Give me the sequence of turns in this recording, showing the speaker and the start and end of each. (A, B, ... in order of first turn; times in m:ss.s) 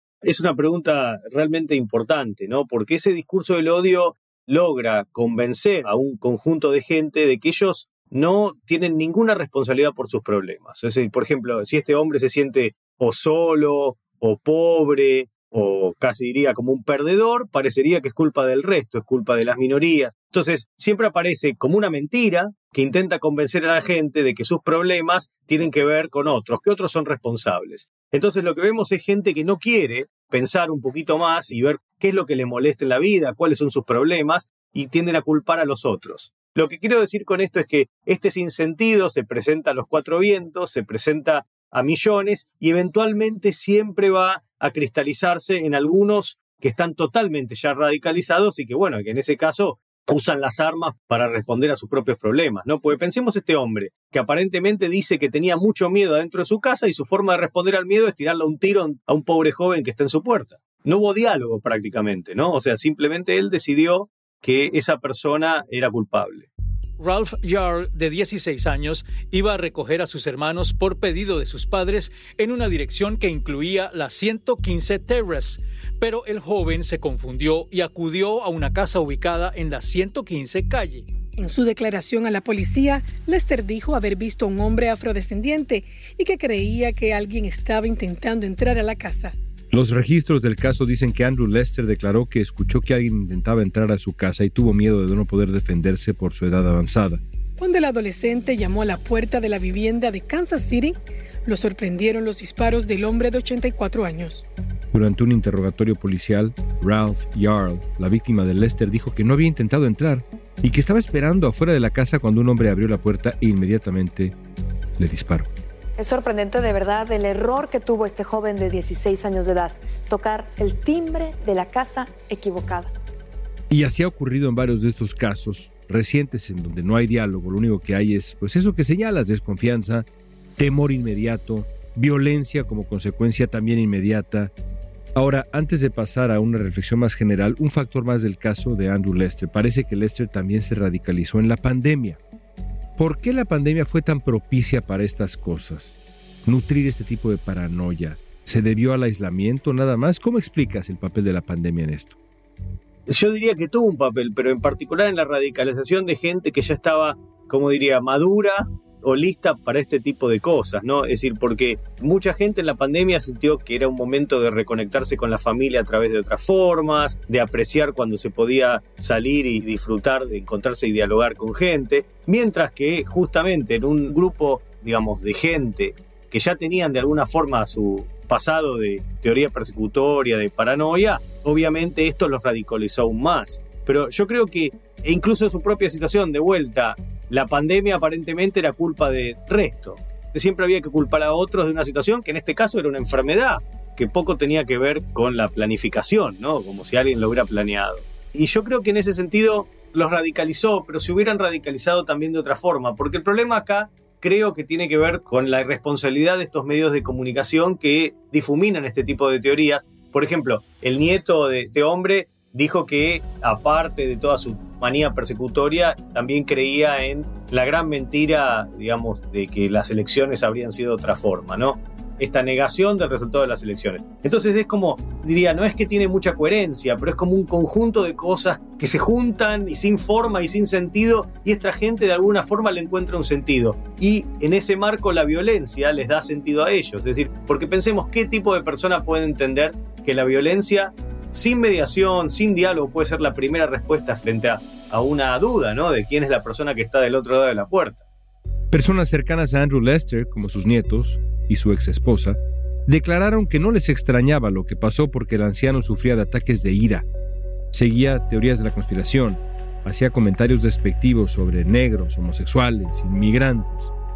0:00.2-1:06.5 A
1:07.0-1:21.0 B
1:21.4-1:29.3 C
1:29.7-1:37.2 D
1:37.6-1:44.4 C
1:44.9-1:54.4 D
1:55.0-1:55.5 D
1:56.0-2:02.9 E
2:03.7-2:10.1 D
2:10.6-2:14.5 D
2:15.1-2:22.2 D
2:23.0-2:25.9 D
2:26.4-2:32.1 D
2:33.1-4:08.0 A
4:08.7-4:17.0 D
4:17.7-4:23.9 D